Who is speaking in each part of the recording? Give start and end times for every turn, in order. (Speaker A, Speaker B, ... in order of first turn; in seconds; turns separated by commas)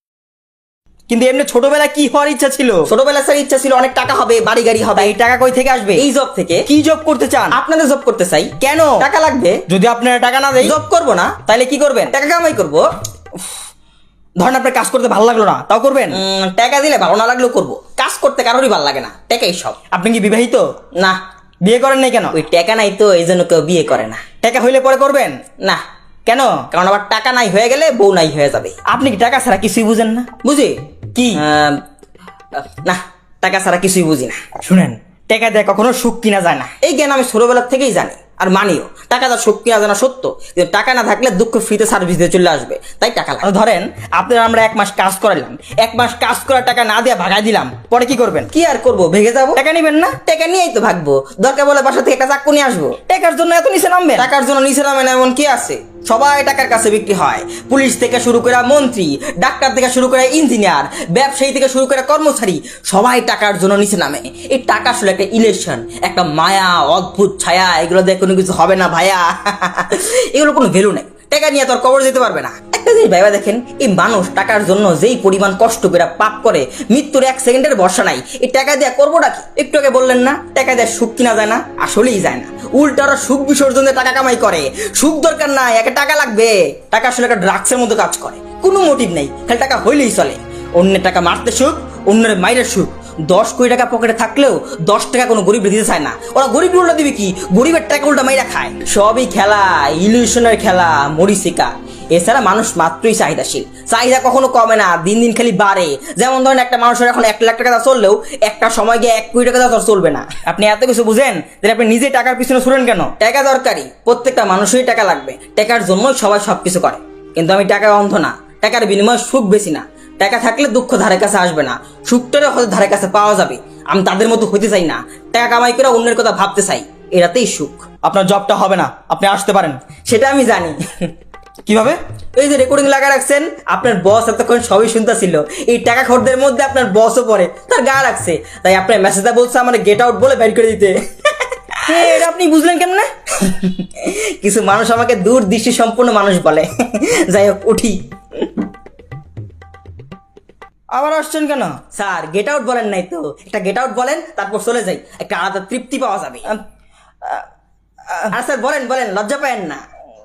Speaker A: 1.1-2.9, Speaker B: 2.9-5.1, Speaker A: 5.0-6.0, Speaker B: 5.9-6.7, Speaker A: 6.7-7.6, Speaker B: 7.5-9.6, Speaker A: 9.7-10.8, Speaker B: 10.6-12.8, Speaker A: 14.4-16.2, Speaker B: 16.1-19.8, Speaker A: 19.9-20.6, Speaker A: 21.6-22.4, Speaker B: 22.3-24.3, Speaker A: 24.4-25.4, Speaker A: 26.3-26.6, Speaker B: 26.7-28.9, Speaker A: 28.9-30.4, Speaker B: 30.4-31.8, Speaker B: 32.7-34.5, Speaker A: 34.6-36.8, Speaker B: 36.8-43.5, Speaker A: 43.4-48.5, Speaker B: 48.5-49.6, Speaker A: 49.6-50.2, Speaker B: 50.1-53.0, Speaker A: 53.0-54.3, Speaker B: 54.2-110.5, Speaker A: 110.5-113.2, Speaker B: 113.2-127.9, Speaker A: 128.0-129.8, Speaker B: 130.1-130.8, Speaker A: 131.7-132.0, Speaker B: 132.4-140.9, Speaker B: 141.9-142.3, Speaker A: 141.9-143.1, Speaker B: 143.4-148.5, Speaker A: 150.9-151.8, Speaker B: 151.9-156.5, Speaker B: 158.3-159.8